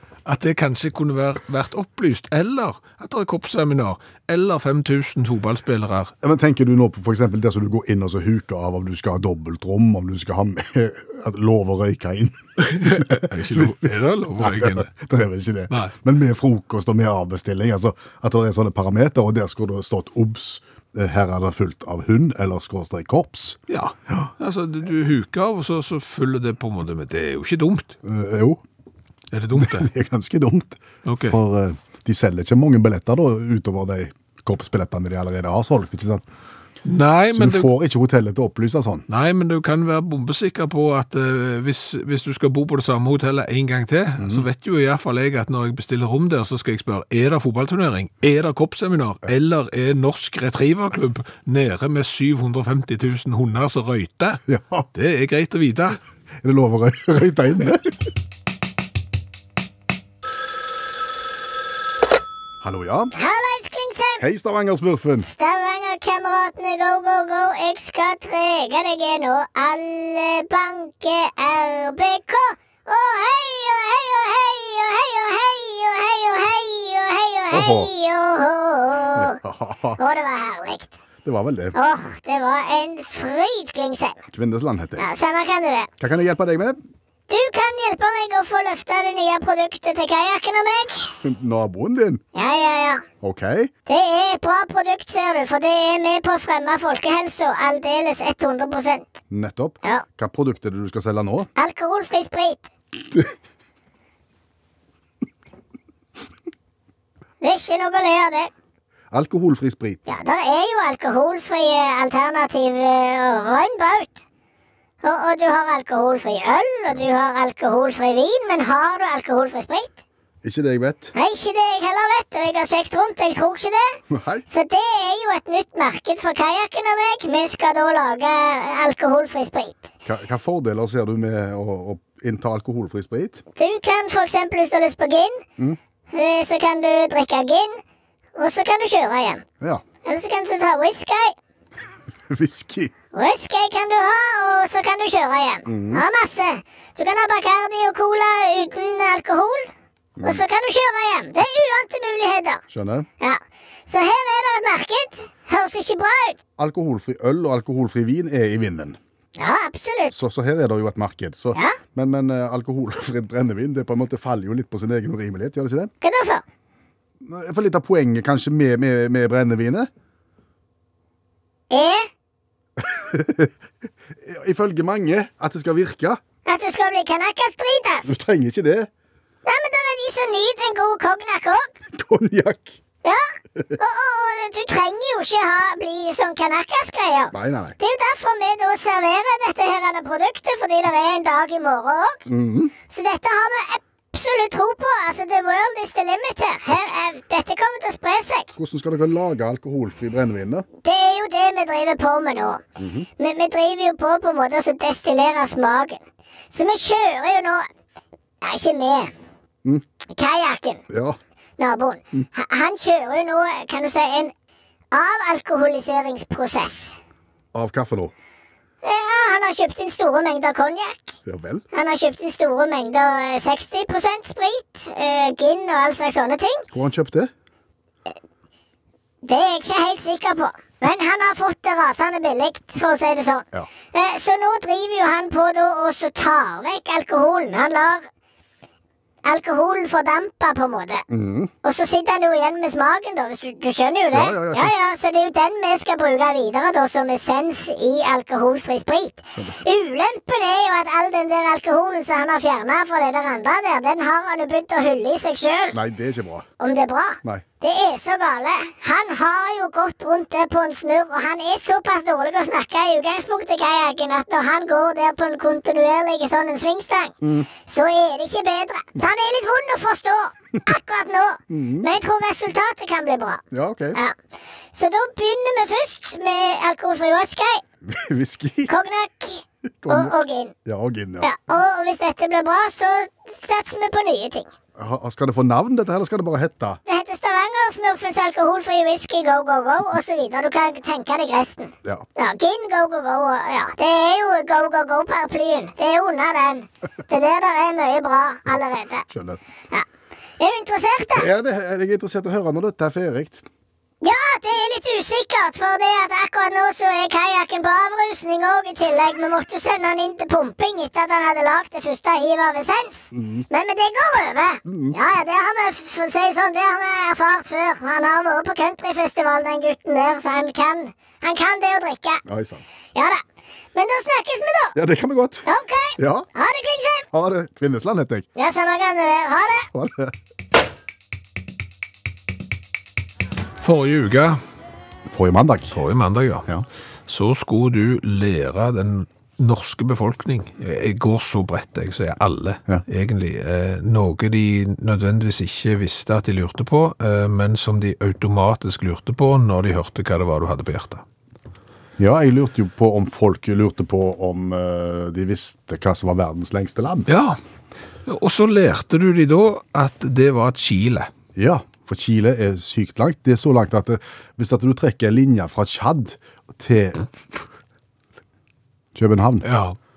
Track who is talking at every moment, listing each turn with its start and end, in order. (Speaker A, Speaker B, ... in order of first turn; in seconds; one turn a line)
Speaker A: 0.2-6.1
Speaker B: 6.2-23.6
Speaker A: 12.6-14.9
Speaker A: 15.7-15.9
Speaker A: 23.7-28.0
Speaker B: 28.0-28.6
Speaker A: 29.3-29.9
Speaker B: 29.6-36.2
Speaker A: 31.1-31.4
Speaker A: 36.8-37.7
Speaker B: 37.3-39.1
Speaker A: 39.1-54.4
Speaker B: 44.2-44.5
Speaker B: 54.5-54.9
Speaker A: 54.9-56.0
Speaker B: 56.4-58.0
Speaker B: 62.6-63.1
Speaker C: 63.1-64.2
Speaker B: 64.2-65.3
Speaker C: 65.2-79.4
Speaker B: 77.5-77.9
Speaker B: 79.2-80.0
Speaker C: 80.0-80.9
Speaker B: 81.2-81.8
Speaker C: 81.7-84.2
Speaker B: 84.3-85.1
Speaker C: 85.0-85.9
Speaker B: 86.0-86.8
Speaker C: 87.3-91.2
Speaker B: 91.2-92.2
Speaker C: 92.3-93.0
Speaker B: 93.2-93.7
Speaker C: 93.9-99.2
Speaker B: 99.3-101.5
Speaker C: 101.6-102.7
Speaker C: 107.4-108.5
Speaker B: 109.1-110.1
Speaker C: 110.1-114.2
Speaker C: 115.0-120.0
Speaker B: 120.4-121.1
Speaker C: 121.1-129.9
Speaker B: 124.1-124.5
Speaker B: 130.1-133.4
Speaker C: 133.6-135.4
Speaker C: 136.1-137.8
Speaker C: 138.4-139.4
Speaker C: 140.1-141.3
Speaker B: 142.3-142.9
Speaker C: 143.1-149.7
Speaker B: 145.7-146.0
Speaker B: 150.2-150.4
Speaker C: 150.2-152.6
Speaker B: 152.7-153.1
Speaker C: 153.2-156.4
Speaker B: 156.6-159.0
Speaker C: 159.4-160.2
Speaker B: 160.1-165.9
Speaker C: 166.0-166.4
Speaker B: 167.2-169.9
Speaker C: 171.7-172.1
Speaker B: 172.8-173.6
Speaker B: 174.2-176.2
Speaker C: 176.5-178.1
Speaker B: 178.1-178.9
Speaker C: 179.5-181.7
Speaker B: 181.9-182.8
Speaker C: 183.0-192.2
Speaker B: 187.3-187.8
Speaker B: 192.3-192.7
Speaker C: 192.9-198.5
Speaker B: 198.6-200.7
Speaker C: 200.8-202.6
Speaker B: 202.8-203.1
Speaker C: 203.2-206.0
Speaker C: 206.5-207.7
Speaker C: 208.4-209.1
Speaker C: 210.1-210.8
Speaker B: 210.9-211.2
Speaker C: 211.6-214.3
Speaker C: 214.9-217.0
Speaker B: 217.5-218.1
Speaker C: 218.8-221.2
Speaker B: 221.3-221.6
Speaker C: 221.7-226.7
Speaker B: 226.7-227.3
Speaker C: 229.2-238.1
Speaker C: 239.2-241.1
Speaker B: 241.1-241.5
Speaker C: 241.6-255.8
Speaker B: 244.1-244.7
Speaker B: 255.7-256.5
Speaker C: 256.6-273.4
Speaker B: 267.2-267.5
Speaker B: 271.5-271.9
Speaker B: 273.5-274.0
Speaker C: 274.7-277.6
Speaker B: 277.9-278.7
Speaker C: 278.7-280.5
Speaker B: 279.7-281.3
Speaker C: 281.2-284.5
Speaker B: 284.8-286.8
Speaker C: 286.9-299.1
Speaker B: 299.1-299.4
Speaker C: 300.4-301.3
Speaker B: 301.1-303.4
Speaker C: 304.0-322.2
Speaker B: 313.1-313.4
Speaker B: 314.6-315.0
Speaker B: 322.2-322.6
Speaker C: 322.9-323.2
Speaker C: 323.7-324.8
Speaker B: 324.8-325.5
Speaker C: 325.5-327.1
Speaker B: 326.0-326.3
Speaker B: 327.1-328.3
Speaker C: 328.4-329.7
Speaker B: 329.7-330.1
Speaker A: 333.6-334.4
Speaker B: 335.1-335.8
Speaker A: 335.7-336.5
Speaker A: 337.1-351.0
Speaker B: 352.0-357.1
Speaker A: 357.1-357.4
Speaker A: 358.1-361.1
Speaker B: 361.4-367.1
Speaker B: 368.9-369.5
Speaker A: 369.4-369.8